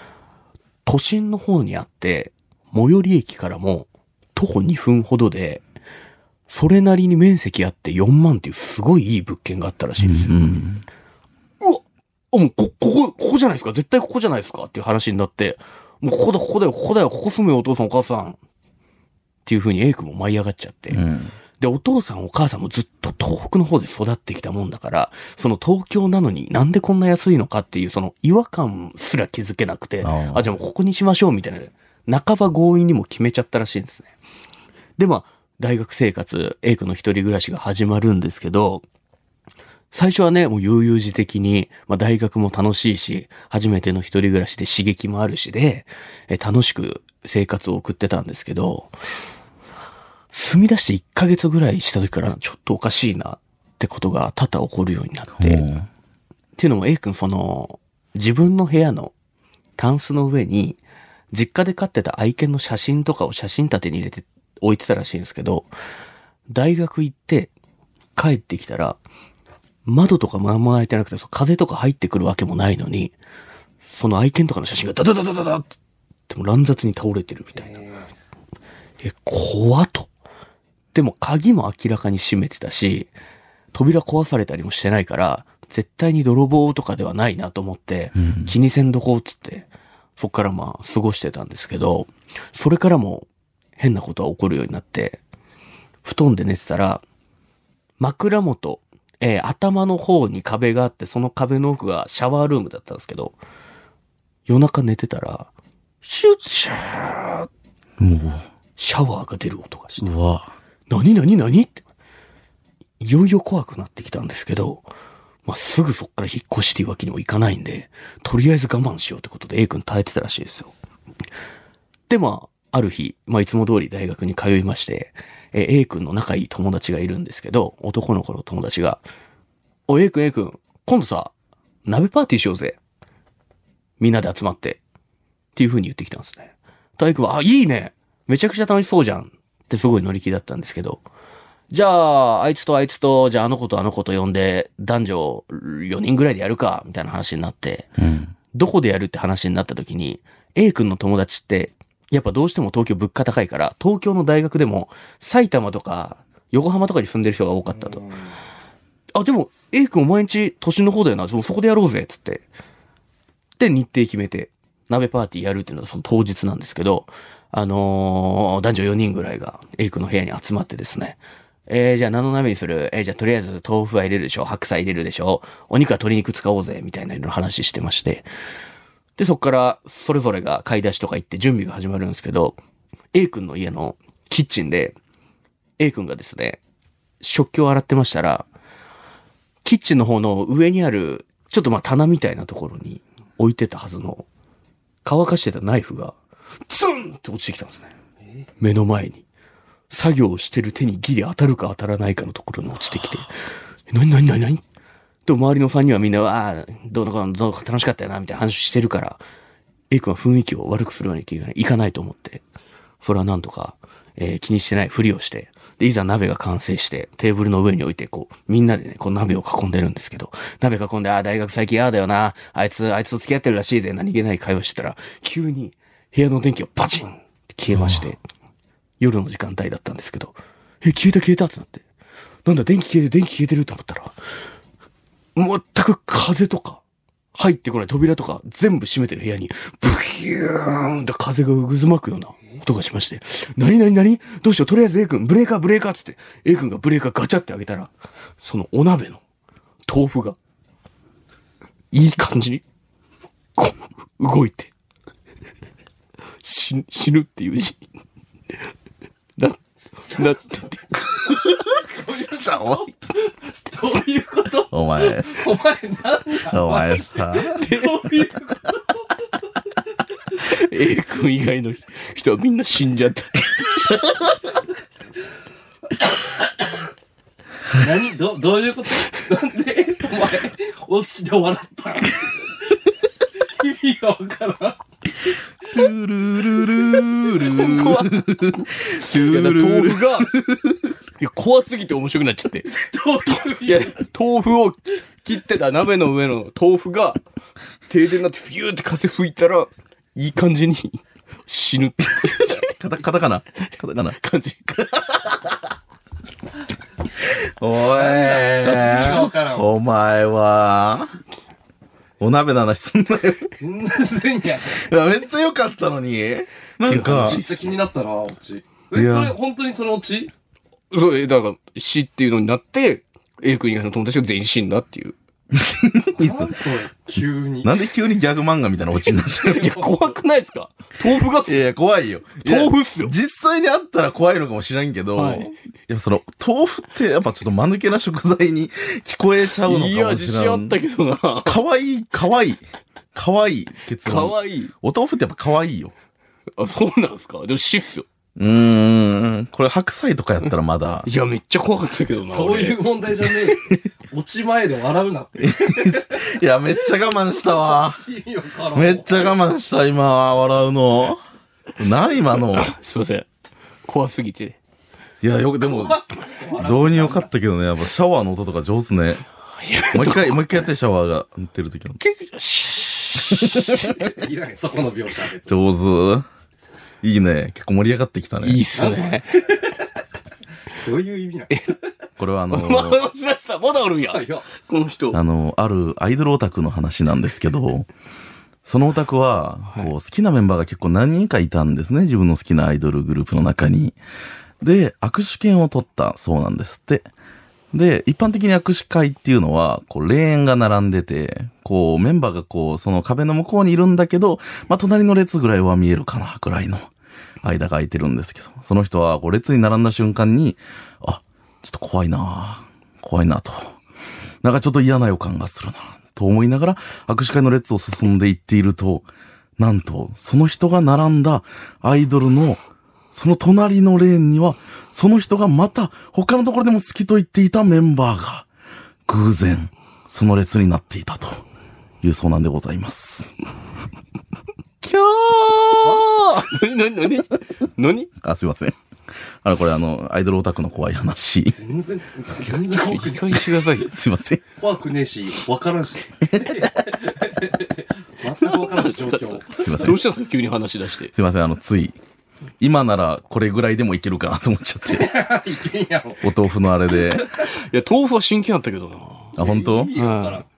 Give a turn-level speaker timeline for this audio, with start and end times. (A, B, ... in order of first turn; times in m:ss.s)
0:00.9-0:05.6 A
0:06.5-0:10.5 A
0:10.0-0:10.8 B
0:11.6-0:18.4 A
0:19.4-0:21.0 A
0:20.9-0:21.3 B
0:21.6-0:34.1 A
0:30.0-0:30.6 B
0:35.0-0:38.8 A
0:39.9-0:48.9 A
0:50.3-0:55.7 A
0:55.4-0:55.9 B
0:56.6-0:59.1 A
0:59.8-1:00.8 A
1:01.3-1:05.7 A
1:06.5-1:07.5 A
1:08.2-1:09.0 A
1:09.9-1:13.2 A
1:13.8-1:15.8 A
1:16.3-1:17.8 A
1:17.5-1:18.1 C
1:19.0-1:20.1 A
1:20.9-1:23.1 A
1:23.7-1:35.2 A
1:28.2-1:28.5 B
1:36.0-1:37.0 A
1:38.0-1:43.4 A
1:44.5-1:45.5 A
1:46.0-1:47.5 A
1:48.0-1:48.4 B
1:48.8-1:50.1 A
1:50.0-1:50.5 B
1:50.9-1:51.8 A
1:53.0-1:54.9 A
1:55.5-2:00.7 A
2:02.1-2:09.0 A
2:09.9-2:11.3 A
2:11.9-2:12.8 A
2:14.0-2:14.8 A
2:15.6-2:21.0 A
2:21.7-2:27.9 A
2:28.0-2:28.3 B
2:28.5-2:38.0 A
2:37.8-2:38.4 C
2:39.2-2:42.4 A
2:43.6-2:58.3 A
2:59.2-3:02.6 A
3:03.1-3:05.0 A
3:05.8-3:06.6 A
3:07.2-3:08.5 A
3:09.6-3:14.2 A
3:15.0-3:16.2 A
3:16.7-3:17.9 A
3:18.2-3:18.5 C
3:18.6-3:19.2 A
3:19.9-3:23.4 A
3:23.9-3:24.6 A
3:25.3-3:29.2 A
3:29.9-3:32.4 A
3:33.0-3:48.2 A
3:47.7-3:48.0 B
3:49.0-3:51.8 A
3:52.4-3:54.2 A
3:55.4-3:56.8 A
3:57.4-4:09.2 A
4:09.9-4:10.4 A
4:11.9-4:12.6 A
4:13.6-4:14.7 A
4:16.4-4:17.8 A
4:19.4-4:21.6 A
4:21.2-4:23.1 C
4:23.7-4:28.8 C
4:24.7-4:25.3 B
4:26.5-4:27.6 B
4:27.5-4:28.1 A
4:30.4-4:34.0 A
4:37.7-4:42.8 C
4:43.4-4:44.8 C
4:45.7-4:50.7 B
4:47.4-4:48.3 A
4:49.0-4:50.4 A
4:51.2-4:52.7 A
4:52.7-4:54.0 C
4:53.5-4:57.2 A
4:57.9-5:02.7 A
5:02.7-5:04.2 B
5:04.2-5:05.2 A
5:07.6-5:11.2 B
5:07.9-5:09.7 C
5:08.8-5:09.2 A
5:12.2-5:13.5 B
5:13.6-5:14.8 C
5:14.7-5:17.4 B
5:16.8-5:17.8 A
5:17.2-5:20.3 C
5:19.0-5:19.4 B
5:20.9-5:25.2 A
5:25.5-5:26.5 B
5:26.2-5:27.7 C
5:27.6-5:29.7 B
5:29.4-5:31.6 A
5:29.6-5:30.1 C
5:31.5-5:40.8 B
5:32.4-5:33.2 A
5:35.2-5:35.5 A
5:39.6-5:41.6 A
5:41.4-5:42.6 B
5:43.1-5:45.9 B
5:44.0-5:44.7 A
5:46.6-5:48.1 A
5:48.4-5:51.1 B
5:51.1-5:52.9 A
5:52.3-5:56.3 C
5:55.4-5:58.0 B
5:57.7-5:59.4 C
5:58.7-6:01.2 B
6:01.8-6:02.7 B
6:02.5-6:03.3 A
6:03.9-6:04.6 A
6:05.2-6:06.0 B
6:05.6-6:07.3 C
6:06.6-6:09.2 B
6:09.6-6:10.6 A
6:09.9-6:12.0 B
6:12.0-6:13.9 A
6:13.4-6:13.9 B
6:13.9-6:15.6 C
6:15.5-6:16.3 B
6:17.0-6:18.7 B
6:18.4-6:19.4 A
6:18.8-6:19.8 C
6:20.8-6:21.7 C
6:21.5-6:21.8 A
6:22.2-6:23.0 B
6:22.5-6:25.2 A
6:24.1-6:24.5 C
6:25.1-6:27.9 B
6:28.6-6:34.0 B
6:34.6-6:37.1 B
6:37.7-6:46.9 B
6:47.4-6:53.8 B
6:54.4-6:59.1 B
6:59.6-7:08.5 B
7:09.1-7:11.4 B
7:12.0-7:13.3 B
7:14.8-7:16.2 B
7:15.8-7:16.1 C
7:16.0-7:18.1 A
7:18.2-7:18.8 B
7:19.4-7:21.6 B
7:21.5-7:23.6 C
7:22.5-7:23.9 A
7:23.9-7:24.4 B
7:24.6-7:29.7 C
7:28.4-7:31.1 A
7:29.6-7:30.0 B
7:31.1-7:32.0 B
7:32.6-7:35.2 B
7:34.9-7:36.3 C
7:36.2-7:37.3 B
7:37.4-7:39.4 A
7:39.4-7:40.4 C
7:39.4-7:39.9 B
7:40.0-7:40.4 A